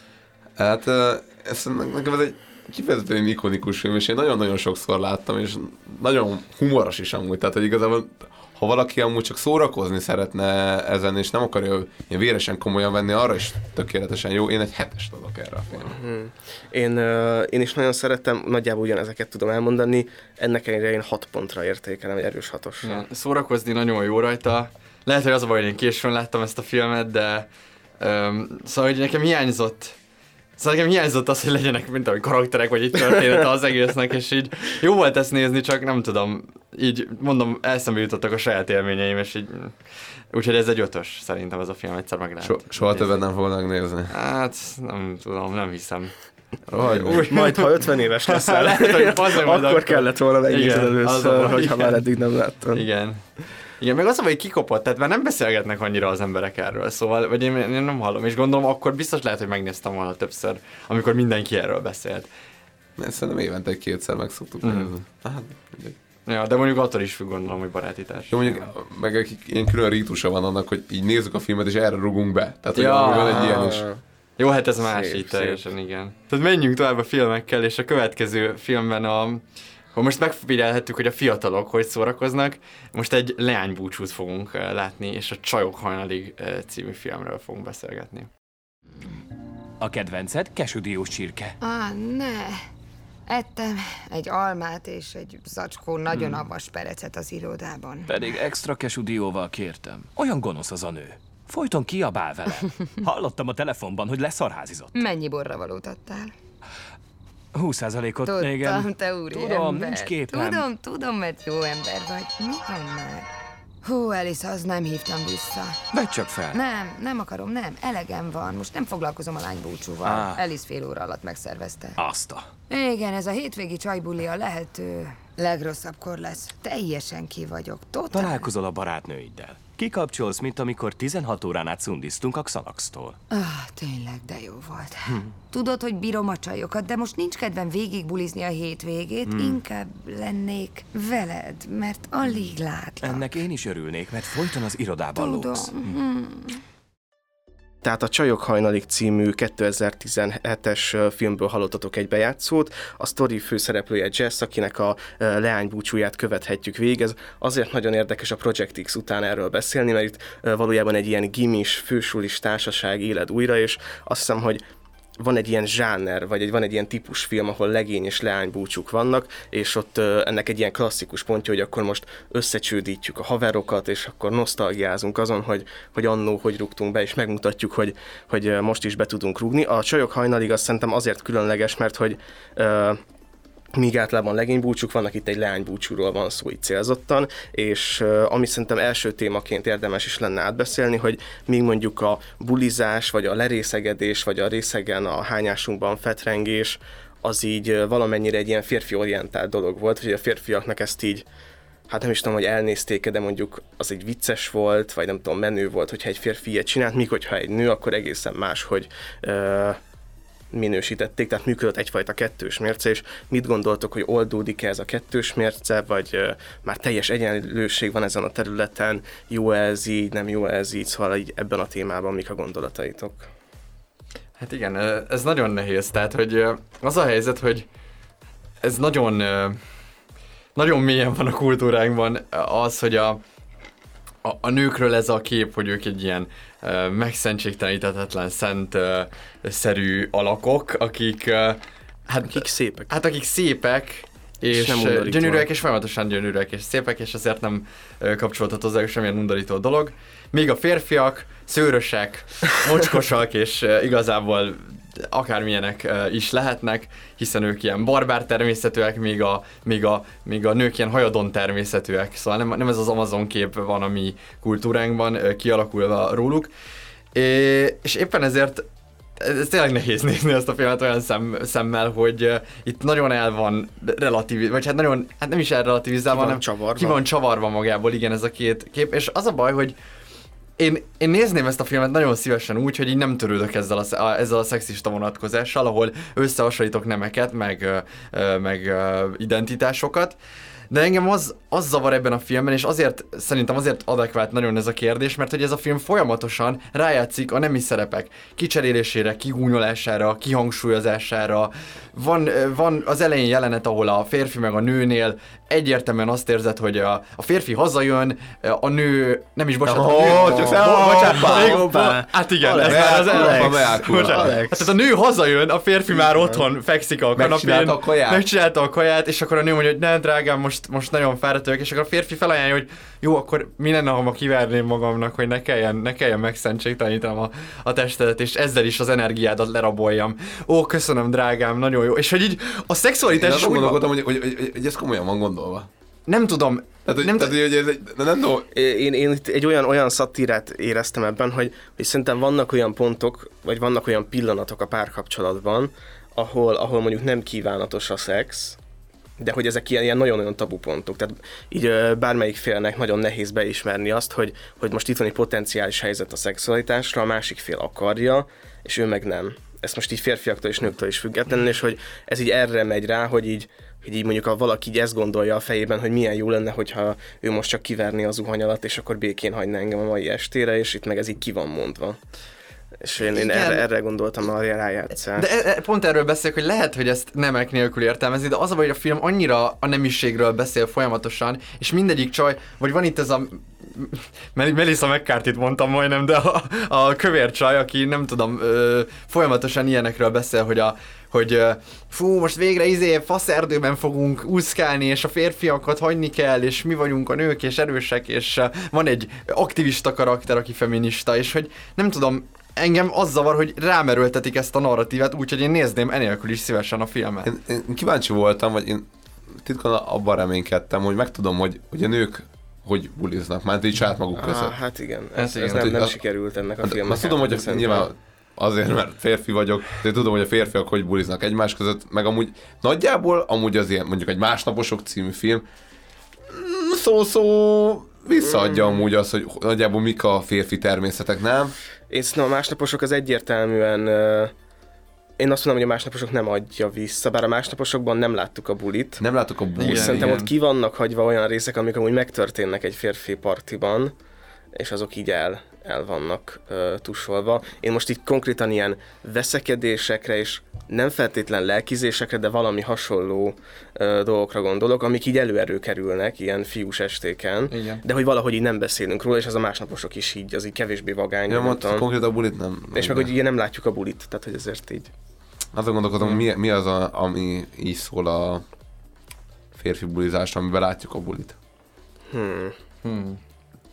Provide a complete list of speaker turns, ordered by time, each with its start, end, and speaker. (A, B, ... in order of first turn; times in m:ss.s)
0:00.6-0:16.0 A
0:15.9-0:23.0 B
0:22.8-0:27.5 C
0:28.0-0:30.0 C
0:30.6-0:39.8 C
0:40.3-0:43.1 C
0:42.4-0:44.1 A
0:44.1-0:46.1 C
0:46.7-0:47.3 A
0:46.8-0:52.0 C
0:47.1-0:52.8 B
0:52.7-0:53.2 C
0:53.8-1:02.3 C
1:03.0-1:06.0 A
1:04.6-1:04.9 C
1:06.3-1:08.7 C
1:08.3-1:13.9 A
1:12.7-1:13.6 C
1:13.1-1:14.0 B
1:14.4-1:19.4 C
1:14.8-1:15.6 B
1:19.9-1:28.3 C
1:29.8-1:31.6 D
1:31.6-1:32.6 E
1:33.3-1:38.1 E
1:38.1-1:44.9 D
1:44.9-1:46.3 E
1:47.6-1:50.7 D
1:48.2-1:53.3 E
1:53.8-1:55.8 E
1:55.9-1:56.6 D
1:56.5-2:02.0 E
2:00.0-2:00.4 D
2:02.0-2:02.5 D
2:02.7-2:08.5 E
2:08.1-2:13.2 D
2:13.3-2:23.2 E
2:19.2-2:19.6 D
2:22.2-2:26.0 D
2:25.2-2:26.6 E
2:27.8-2:44.6 B
2:45.2-3:03.0 B
3:03.8-3:21.3 B
3:21.9-3:29.8 B
3:30.5-3:43.3 B
3:44.4-3:47.7 C
3:48.6-3:49.6 C
3:50.6-3:53.2 C
3:54.2-4:26.5 C
4:02.2-4:02.9 B
4:04.5-4:05.5 B
4:27.2-4:28.6 C
4:29.2-4:39.8 C
4:36.1-4:37.0 B
4:40.6-4:50.2 C
4:50.7-5:33.8 C
5:09.7-5:11.8 A
5:10.0-5:14.7 B
5:12.6-5:14.4 A
5:15.9-5:16.5 B
5:17.2-5:18.2 A
5:33.1-5:35.7 A
5:36.1-5:37.4 C
5:36.9-5:38.5 A
5:38.6-5:48.6 B
5:49.2-6:12.0 B
6:12.8-6:15.3 B
6:13.1-6:13.6 C
6:15.2-6:47.3 C
6:47.2-6:48.9 A
6:49.4-6:54.6 A
6:54.2-6:57.9 B
6:55.2-6:55.7 C
6:55.5-6:56.0 A
6:56.6-7:05.4 A
7:06.3-7:11.5 A
7:08.2-7:08.6 B
7:11.9-7:14.3 B
7:15.2-7:19.0 B
7:19.0-7:20.2 A
7:19.6-7:20.3 C
7:19.6-7:23.9 B
7:24.6-7:41.9 B
7:37.5-7:37.8 C
7:41.3-7:43.1 A
7:42.7-7:44.9 B
7:45.5-7:48.4 A
7:49.5-7:51.4 A
7:52.1-7:52.6 B
7:52.8-7:53.2 C